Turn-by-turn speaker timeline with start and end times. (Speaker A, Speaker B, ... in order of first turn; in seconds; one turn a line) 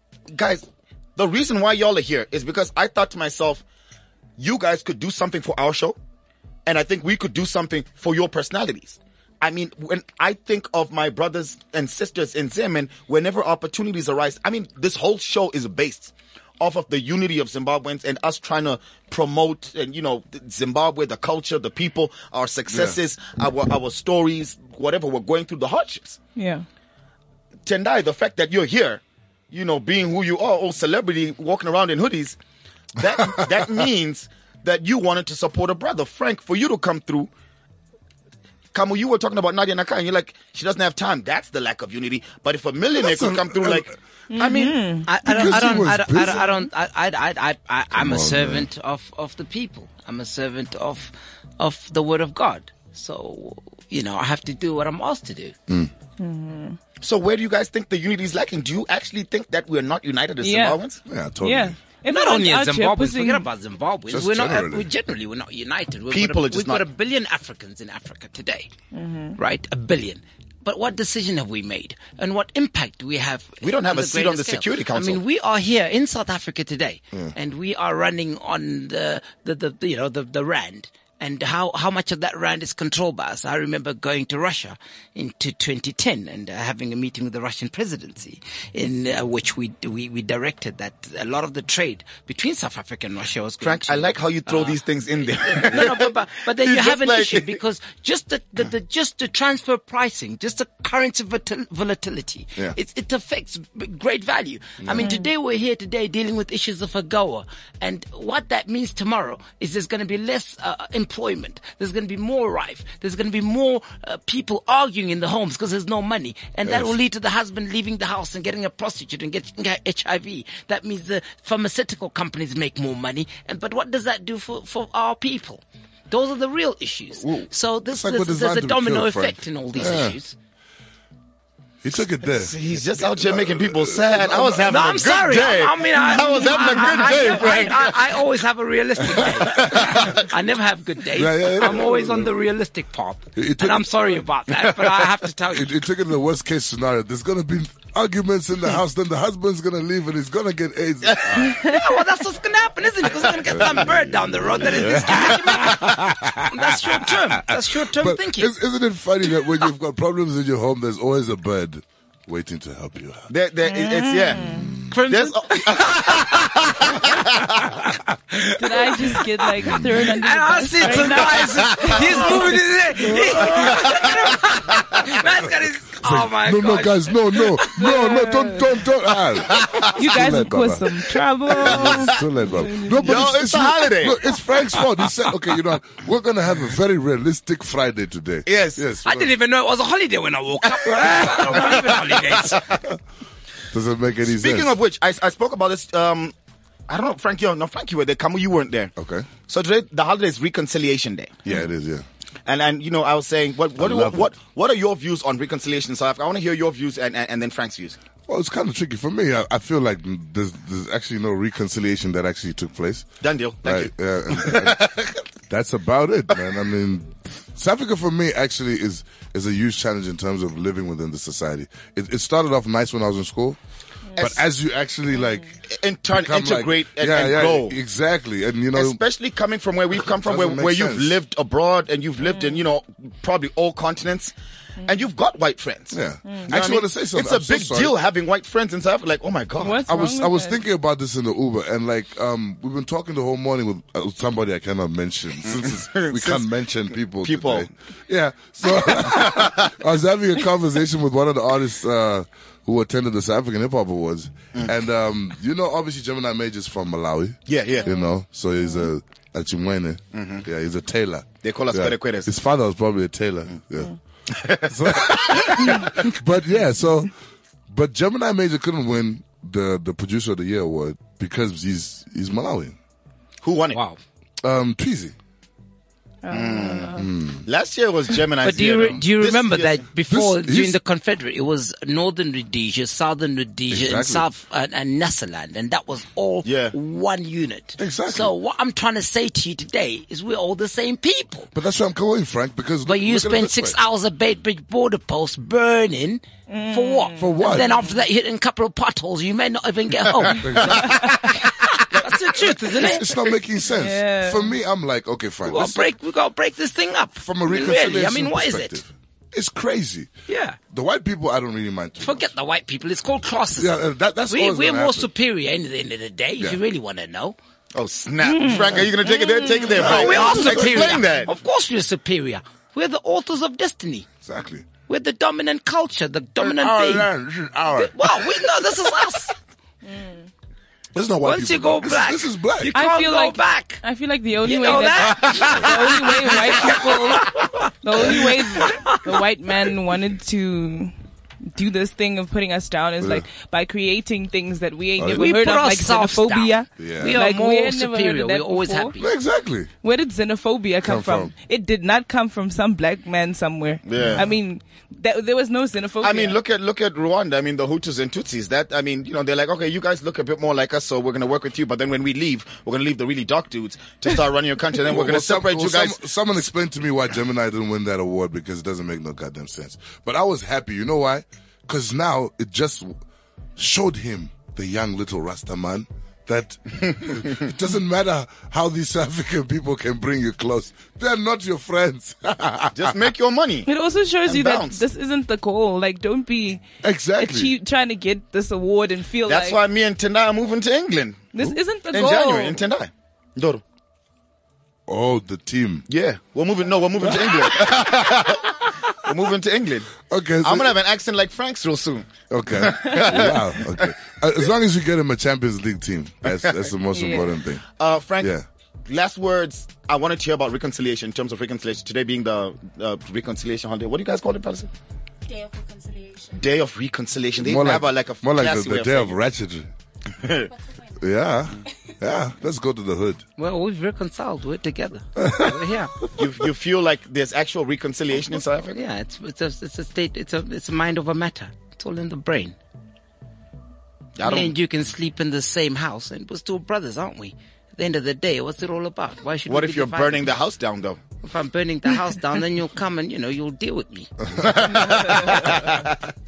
Speaker A: 0.3-3.6
Speaker A: 4.4-6.0
Speaker A: 6.7-26.2
Speaker B: 22.7-23.0
Speaker C: 26.4-26.6
Speaker A: 27.7-32.4
Speaker A: 33.0-37.3
Speaker A: 38.7-44.8
Speaker B: 43.0-44.0
Speaker C: 44.3-45.9
Speaker D: 45.1-55.5
Speaker B: 45.2-46.5
Speaker B: 47.9-48.7
Speaker C: 56.2-56.8
Speaker A: 57.0-61.0
Speaker C: 60.4-60.8
Speaker B: 61.1-61.8
Speaker C: 61.4-63.5
Speaker D: 62.1-68.7
Speaker B: 64.1-64.9
Speaker A: 66.1-66.9
Speaker C: 68.9-69.3
Speaker D: 69.4-130.4
Speaker A: 73.6-75.2
Speaker A: 93.6-97.6
Speaker B: 104.8-105.1
Speaker C: 105.0-105.3
Speaker B: 116.7-116.9
Speaker B: 127.2-130.2
Speaker B: 131.8-135.0
Speaker A: 132.3-138.0
Speaker D: 134.6-145.8
Speaker C: 135.9-137.7
Speaker B: 139.2-140.1
Speaker A: 139.6-140.2
Speaker B: 141.1-142.3
Speaker B: 143.3-144.2
Speaker B: 145.5-151.7
Speaker D: 151.3-158.5
Speaker B: 153.5-163.3
Speaker A: 163.3-167.8
Speaker C: 163.7-164.7
Speaker B: 164.4-164.9
Speaker D: 164.9-167.0
Speaker D: 168.3-169.4
Speaker C: 168.6-173.2
Speaker B: 169.6-170.0
Speaker D: 170.1-177.8
Speaker A: 171.8-172.1
Speaker B: 173.1-173.7
Speaker A: 173.5-174.1
Speaker A: 174.6-175.2
Speaker B: 176.0-180.9
Speaker C: 177.8-178.7
Speaker A: 179.5-179.9
Speaker C: 179.9-183.1
Speaker B: 181.5-189.3
Speaker A: 183.0-184.2
Speaker D: 184.7-185.3
Speaker A: 188.5-188.8
Speaker D: 189.0-192.8
Speaker A: 191.0-192.8
Speaker B: 193.7-194.8
Speaker A: 194.3-196.3
Speaker A: 196.9-198.9
Speaker B: 199.0-199.3
Speaker A: 199.5-201.4
Speaker B: 201.4-202.0
Speaker A: 202.5-208.0
Speaker B: 203.8-204.3
Speaker B: 208.3-213.1
Speaker A: 213.2-215.2
Speaker B: 213.6-214.9
Speaker B: 215.5-223.6
Speaker B: 224.2-229.0
Speaker A: 225.7-227.8
Speaker A: 228.7-234.3
Speaker B: 230.0-231.2
Speaker A: 234.8-239.8
Speaker B: 235.9-237.9
Speaker C: 239.6-240.6
Speaker B: 239.7-263.9
Speaker A: 245.4-246.5
Speaker A: 247.2-247.7
Speaker A: 248.7-249.8
Speaker A: 257.5-257.9
Speaker A: 260.1-260.4
Speaker A: 261.4-262.3
Speaker A: 264.3-265.9
Speaker B: 264.5-267.1
Speaker B: 267.7-272.8
Speaker A: 273.4-273.8
Speaker D: 273.7-274.0
Speaker B: 274.4-275.1
Speaker C: 276.2-277.1
Speaker A: 276.3-279.8
Speaker B: 277.0-277.4
Speaker D: 278.4-291.5
Speaker B: 280.1-280.8
Speaker B: 283.7-284.3
Speaker A: 286.4-286.7
Speaker B: 287.8-288.3
Speaker B: 291.5-293.8
Speaker D: 292.8-303.1
Speaker C: 296.5-297.8
Speaker B: 297.2-297.7
Speaker B: 300.4-300.9
Speaker A: 301.9-302.8
Speaker B: 302.7-305.9
Speaker C: 303.7-304.5
Speaker D: 305.4-308.8
Speaker B: 307.2-310.1
Speaker D: 310.3-310.6
Speaker B: 310.7-312.3
Speaker D: 312.0-317.4
Speaker B: 313.6-315.1
Speaker A: 317.8-321.3
Speaker C: 318.2-319.7
Speaker D: 319.7-324.1
Speaker B: 319.8-321.1
Speaker B: 324.2-324.7
Speaker D: 324.9-327.1
Speaker B: 326.4-328.3
Speaker D: 327.7-329.4
Speaker B: 330.9-332.8
Speaker D: 331.2-333.8
Speaker C: 332.7-340.9
Speaker D: 334.4-339.2
Speaker B: 335.4-335.7
Speaker C: 341.5-349.0
Speaker B: 343.0-343.2
Speaker B: 345.0-345.3
Speaker D: 345.0-349.1
Speaker B: 346.8-347.2
Speaker B: 349.0-349.7
Speaker C: 349.8-356.4
Speaker B: 350.8-351.3
Speaker A: 353.9-354.2
Speaker A: 356.0-366.0
Speaker B: 364.8-373.0
Speaker B: 373.6-383.0
Speaker A: 376.9-377.4
Speaker A: 382.7-383.7
Speaker C: 383.7-386.6
Speaker A: 384.3-384.8
Speaker B: 386.8-387.5
Speaker C: 387.2-389.6
Speaker A: 389.3-391.2
Speaker C: 391.3-392.6
Speaker A: 391.9-393.6
Speaker B: 394.9-395.9
Speaker A: 395.9-404.0
Speaker B: 397.0-398.4
Speaker B: 400.1-400.8
Speaker B: 402.3-407.6
Speaker A: 406.4-406.7
Speaker C: 406.9-407.3
Speaker A: 407.8-408.3
Speaker B: 408.2-408.5
Speaker A: 408.9-414.7
Speaker A: 416.3-419.2
Speaker B: 417.4-419.7
Speaker A: 420.1-420.5
Speaker B: 420.9-423.2
Speaker D: 423.4-425.9
Speaker B: 425.2-425.7
Speaker A: 426.2-428.8
Speaker D: 428.7-432.6
Speaker A: 434.2-434.6
Speaker D: 434.2-440.3
Speaker A: 439.5-441.0
Speaker D: 441.2-445.7
Speaker A: 444.4-445.9